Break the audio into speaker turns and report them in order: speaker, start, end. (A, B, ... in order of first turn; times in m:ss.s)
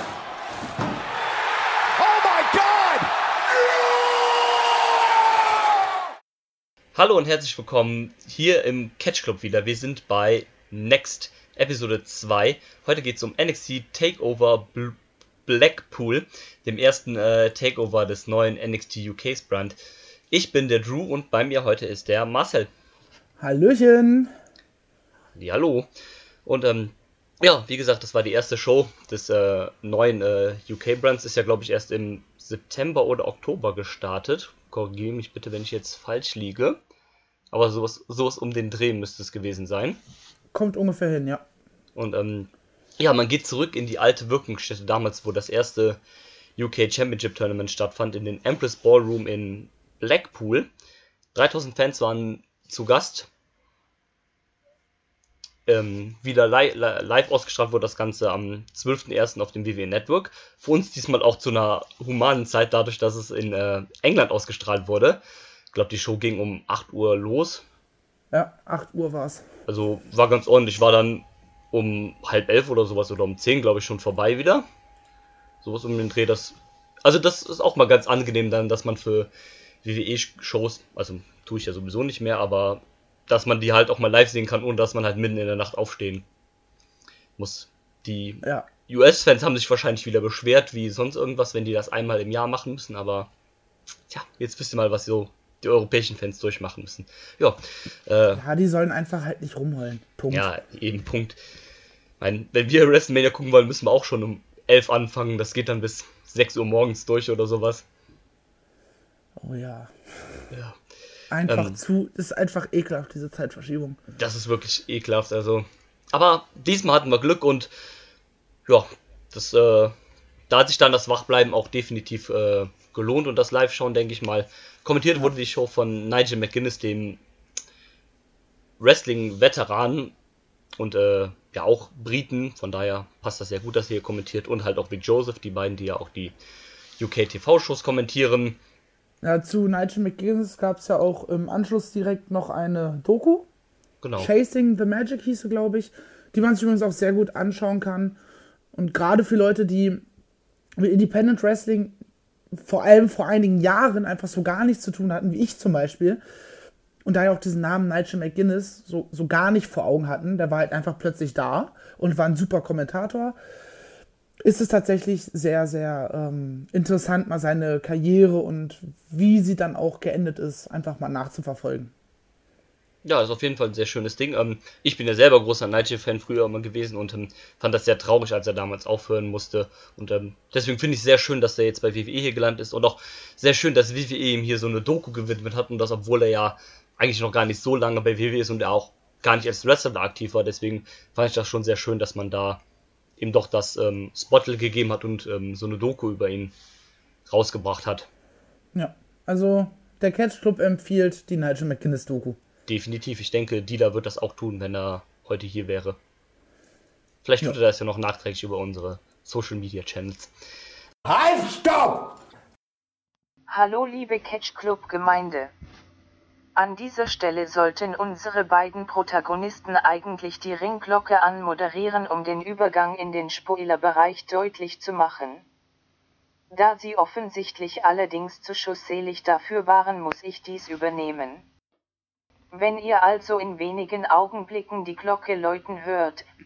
0:02.0-0:04.4 A
0:07.0-0:19.8 B
0:20.3-0:22.7 B
0:23.4-0:24.3 C
0:25.4-0:25.9 B
0:26.5-0:36.8 B
0:37.5-0:40.0 B
0:40.5-0:41.4 C
0:42.0-0:46.0 B
0:46.6-0:50.7 B
0:51.3-0:53.3 B
0:55.7-1:05.2 B
1:05.7-1:07.6 B
1:08.3-1:09.4 C
1:09.7-1:14.7 B
1:15.6-1:19.3 B
1:19.8-1:26.2 B
1:27.4-1:33.3 B
1:34.1-1:38.4 B
1:38.4-1:40.5 C
1:40.3-1:41.4 B
1:42.2-1:47.8 B
1:49.4-1:49.9 C
1:50.5-1:50.8 B
1:51.3-1:54.0 C
1:51.5-1:51.8 B
1:54.2-1:57.7 B
1:58.7-2:00.0 B
2:00.5-2:07.2 B
2:08.8-2:10.1 B
2:10.8-2:16.4 B
2:17.0-2:18.6 B
2:19.2-2:23.5 C
2:24.0-2:24.3 B
2:24.2-2:28.2 C
2:28.7-2:30.0 C
2:30.8-2:32.0 C
2:32.5-2:36.2 C
2:37.0-2:43.4 C
2:44.4-2:51.9 C
2:53.0-3:12.6 B
3:13.2-3:16.5 B
3:17.3-3:18.1 B
3:18.7-3:22.4 C
3:22.7-3:26.0 B
3:27.2-3:30.3 B
3:31.1-3:32.1 A
3:33.5-3:35.5 D
3:36.6-3:45.4 D
3:46.5-3:51.4 D
3:52.5-3:56.2 D